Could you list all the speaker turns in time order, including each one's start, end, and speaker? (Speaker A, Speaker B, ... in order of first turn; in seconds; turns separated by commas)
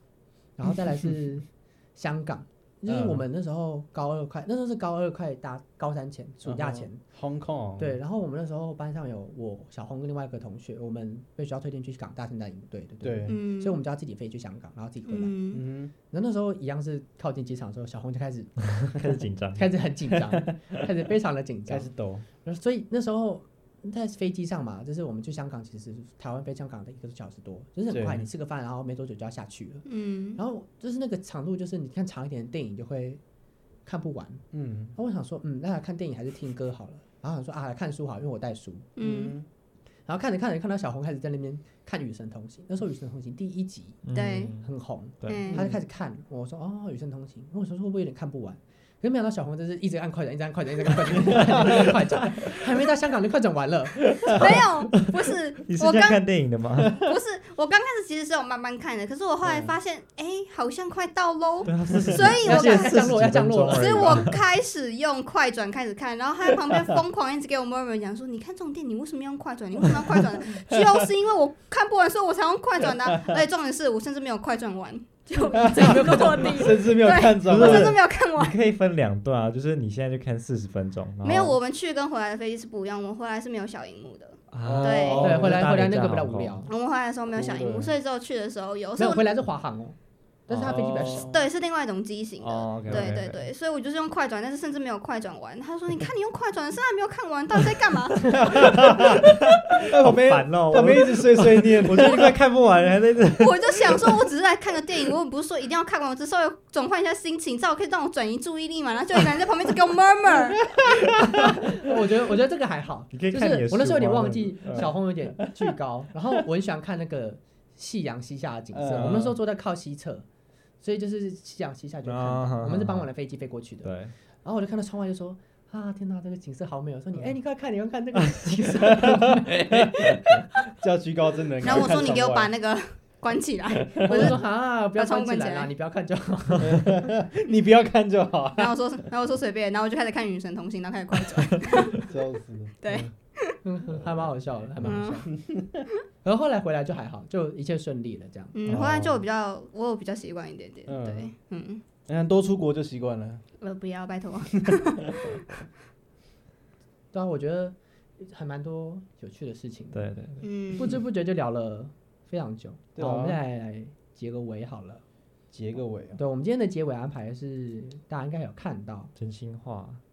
Speaker A: 0.6-7.0, Speaker B: 2.9-3.2, Speaker B: 6.4-8.0, Speaker A: 7.8-15.3, Speaker B: 13.0-13.3, Speaker C: 13.3-13.8, Speaker C: 15.1-15.6, Speaker B: 15.5-15.9, Speaker A: 16.0-19.0, Speaker D: 18.8-19.7, Speaker A: 19.5-21.9, Speaker B: 20.3-20.7, Speaker B: 21.7-22.2, Speaker A: 22.4-33.2, Speaker B: 27.9-28.2, Speaker C: 29.9-30.4, Speaker A: 33.8-38.9, Speaker B: 34.5-34.9, Speaker C: 39.0-39.4, Speaker B: 39.0-39.5, Speaker A: 40.1-44.0, Speaker D: 44.0-44.7, Speaker C: 44.1-44.5, Speaker A: 44.6-54.6, Speaker D: 45.2-45.7, Speaker C: 45.2-45.6, Speaker C: 54.3-56.2, Speaker D: 55.6-57.0, Speaker C: 56.9-63.0, Speaker D: 61.6-64.3, Speaker A: 62.4-64.2, Speaker C: 63.7-78.5, Speaker B: 75.5-78.0, Speaker A: 75.7-76.8, Speaker D: 77.4-81.5, Speaker C: 81.2-85.3, Speaker D: 84.5-86.6, Speaker B: 84.6-85.6, Speaker A: 85.2-86.7, Speaker C: 86.7-89.3, Speaker B: 87.3-87.9, Speaker A: 89.0-90.0, Speaker A: 90.5-91.3, Speaker D: 90.5-91.2, Speaker B: 90.6-91.4, Speaker C: 91.3-98.3, Speaker D: 92.4-93.5, Speaker B: 98.3-102.4, Speaker D: 98.8-104.2, Speaker C: 103.4-110.7, Speaker A: 111.1-120.2, Speaker D: 113.1-114.9, Speaker B: 114.7-115.7, Speaker B: 118.7-119.4, Speaker A: 120.8-130.4, Speaker D: 122.0-123.1, Speaker D: 123.8-124.1, Speaker B: 128.9-129.5, Speaker B: 130.3-132.5, Speaker C: 131.6-134.4, Speaker B: 133.9-134.3, Speaker A: 134.1-136.9, Speaker C: 134.9-135.7, Speaker B: 136.6-138.8, Speaker C: 138.6-142.1, Speaker B: 141.9-143.1, Speaker C: 142.8-143.6, Speaker A: 143.6-145.3, Speaker B: 144.8-145.8, Speaker C: 144.8-145.2, Speaker A: 146.2-148.6, Speaker C: 148.5-151.8, Speaker B: 148.7-149.2, Speaker B: 150.9-151.3, Speaker B: 152.1-153.4, Speaker C: 153.6-155.4, Speaker A: 157.1-160.1, Speaker D: 159.9-160.4, Speaker C: 160.4-161.0, Speaker A: 160.8-165.0, Speaker B: 162.9-163.4, Speaker B: 165.5-166.2, Speaker A: 166.1-169.1, Speaker D: 169.2-170.0